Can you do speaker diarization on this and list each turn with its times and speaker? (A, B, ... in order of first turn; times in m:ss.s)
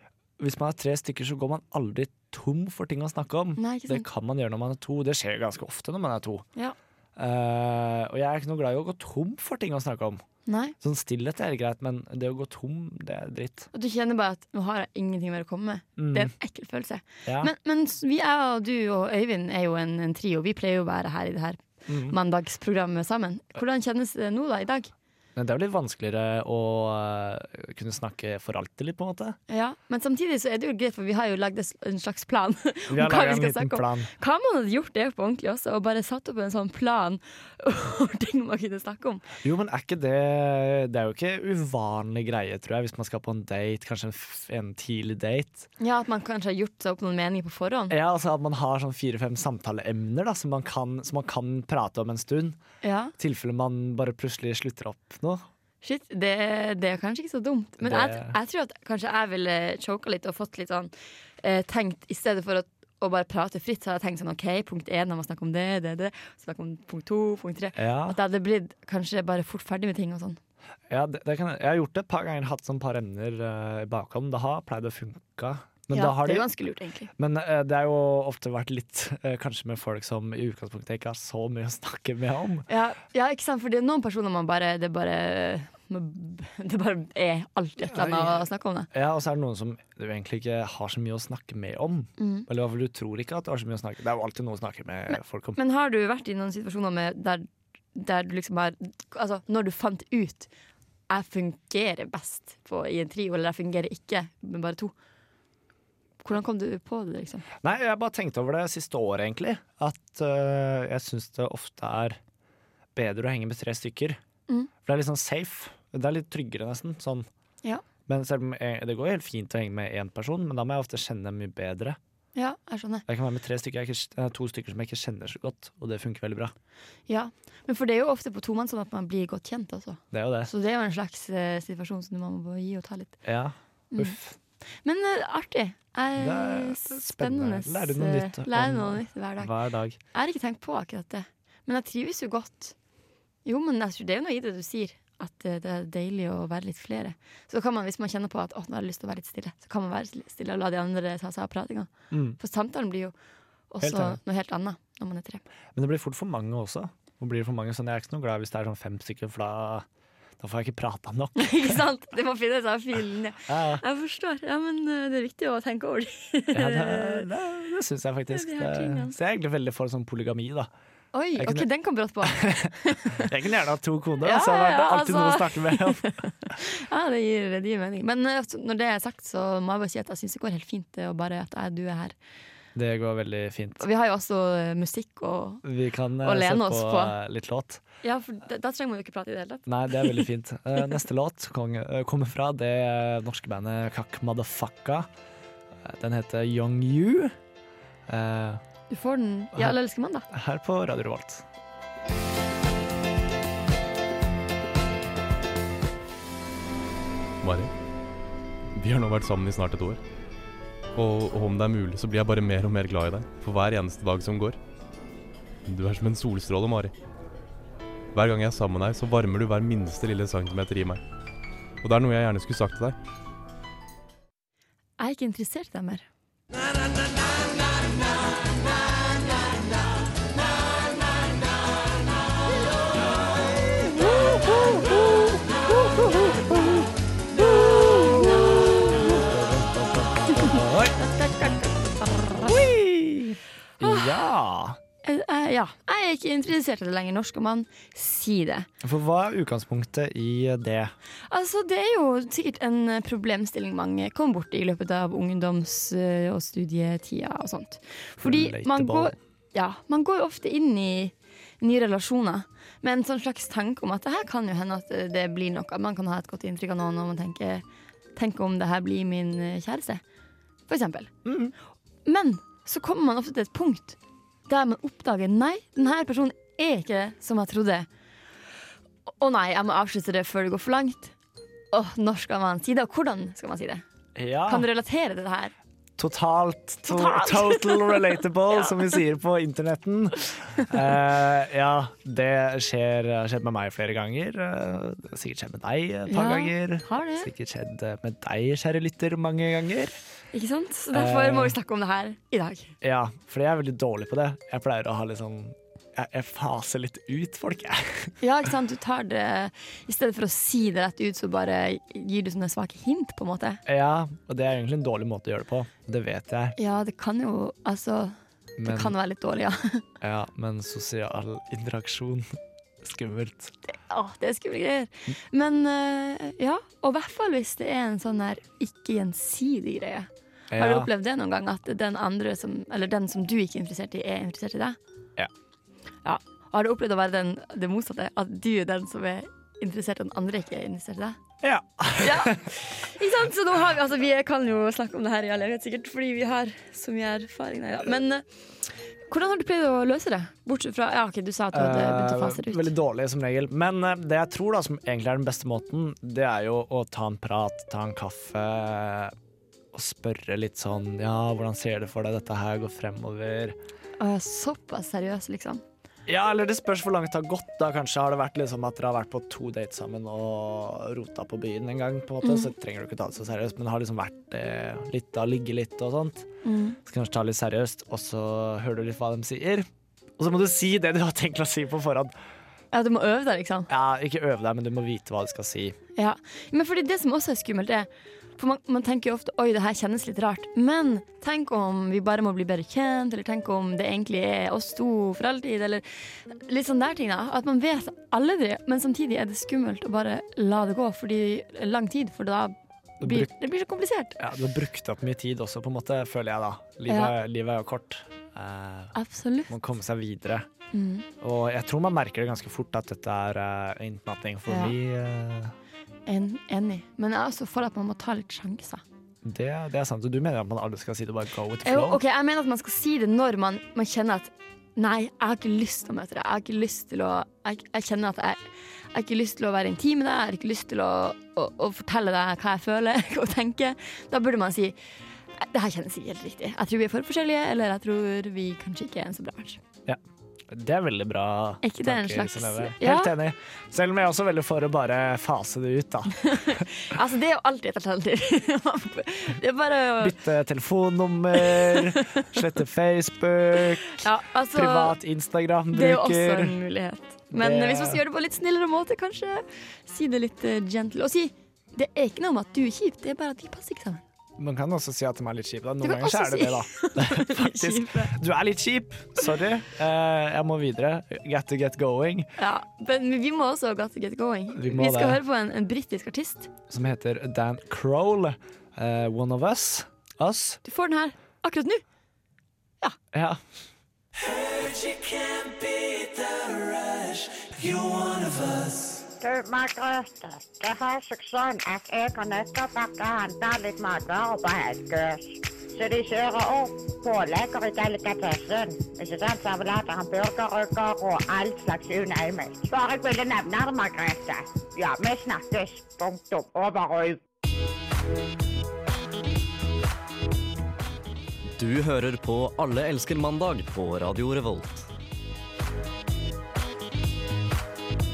0:00.4-0:06.4 A
0:03.6-0:04.1 B
0:07.2-0:10.2 A
0:10.5-0:10.8 B
0:10.8-0:13.7 A
0:13.7-0:24.9 B
0:16.0-0:16.3 A
0:17.3-0:17.5 A
0:21.9-0:22.2 A
0:25.4-0:29.4 A
0:29.5-0:39.2 B
0:32.9-0:34.1 A
0:39.4-0:45.7 A
0:45.8-0:48.0 B
0:47.9-0:52.6 A
0:52.8-0:53.1 B
0:53.2-0:55.5 A
0:55.8-1:10.4 B
0:57.8-0:58.4 A
1:07.8-1:08.2 A
1:10.9-1:16.5 A
1:15.9-1:17.1 B
1:17.2-1:22.7 A
1:22.7-1:28.9 B
1:27.9-1:35.6 A
1:32.2-1:32.5 B
1:35.6-1:40.5 B
1:41.1-1:44.9 B
1:46.2-1:47.5 B
1:47.6-1:52.2 A
1:53.0-1:54.2 A
1:54.8-1:57.3 A
1:58.1-2:02.0 A
2:02.4-2:03.0 B
2:03.1-2:06.5 A
2:07.1-2:13.2 B
2:10.1-2:10.5 A
2:13.2-2:14.4 A
2:13.9-2:14.2 B
2:14.8-2:19.5 B
2:16.2-2:20.0 A
2:20.1-2:22.8 B
2:23.4-2:33.1 B
2:32.1-2:32.4 A
2:33.7-2:35.4 B
2:33.8-2:34.2 A
2:35.8-2:39.9 A
2:40.4-2:41.8 A
2:41.4-2:47.3 B
2:43.5-2:43.8 A
2:46.5-2:50.7 A
2:48.3-2:49.2 B
2:51.1-2:53.3 B
2:51.4-2:51.7 A
2:52.2-2:56.2 A
2:54.2-3:02.2 B
3:02.8-3:03.8 A
3:03.8-3:05.6 B
3:05.6-3:07.8 A
3:06.2-3:07.2 B
3:08.0-3:10.3 B
3:09.7-3:15.1 A
3:15.8-3:17.4 A
3:18.1-3:18.6 A
3:18.9-3:20.3 B
3:20.3-3:21.4 A
3:27.4-3:27.7 C
3:28.7-3:30.0 C
3:31.0-3:34.6 C
3:35.7-3:36.9 C
3:38.1-3:41.0 C
3:41.8-3:43.0 C
3:45.0-3:46.0 B
3:53.8-4:01.0 A
3:57.9-3:58.8 B
4:00.4-4:02.6 B
4:02.4-4:04.8 A
4:03.8-4:04.2 B
4:05.0-4:08.7 B
4:08.8-4:10.9 A
4:11.3-4:27.6 B
4:18.2-4:19.2 A
4:28.2-4:30.0 B
4:30.7-4:31.1 B
4:31.2-4:31.5 A
4:32.0-4:37.9 B
4:39.1-4:41.1 B
4:41.7-4:43.8 B
4:44.2-4:44.7 A
4:44.5-4:45.5 B
4:46.0-5:00.0 A
4:46.9-4:48.9 B
4:56.1-4:57.3 B
5:00.3-5:02.8 B
5:00.9-5:01.6 A
5:02.8-5:08.1 A
5:08.2-5:13.6 B
5:13.7-5:16.6 A
5:16.6-5:19.9 B
5:18.6-5:19.0 A
5:20.0-5:23.5 A
5:23.7-5:34.8 B
5:30.5-5:30.9 A
5:36.0-5:41.2 B
5:41.4-5:42.5 A
5:42.0-5:48.3 B
5:49.1-5:52.7 B
5:51.5-5:59.2 A
5:59.7-6:03.6 A
6:04.0-6:05.6 B
6:06.1-6:16.3 A
6:12.2-6:12.5 B
6:16.4-6:16.8 B
6:16.8-6:19.7 A
6:20.2-6:22.1 A
6:22.7-6:23.7 B
6:23.7-6:25.8 A
6:26.0-6:44.2 B
6:43.0-6:43.3 A
6:44.2-6:49.0 A
6:46.9-6:47.2 B
6:49.0-6:49.5 B
6:49.5-6:50.5 A
6:50.7-6:51.1 B
6:51.2-6:55.5 A
6:54.5-6:54.8 B
6:56.1-6:58.8 B
6:59.2-7:02.0 A
7:01.6-7:08.4 B
7:08.9-7:14.8 B
7:15.4-7:19.6 B
7:19.9-7:26.7 A
7:21.6-7:23.2 B
7:26.2-7:30.2 B
7:30.0-7:36.6 A
7:31.4-7:32.4 B
7:34.0-7:35.0 B
7:35.7-7:44.0 B
7:37.3-7:38.0 A
7:44.4-7:52.3 A
7:45.8-7:48.2 B
7:52.4-7:56.5 B
7:54.5-7:55.2 A
7:56.7-8:00.6 A
8:00.6-8:01.8 B
8:03.1-8:03.4 A
8:07.7-8:08.8 A
8:09.2-8:27.2 D
8:31.6-8:34.9 E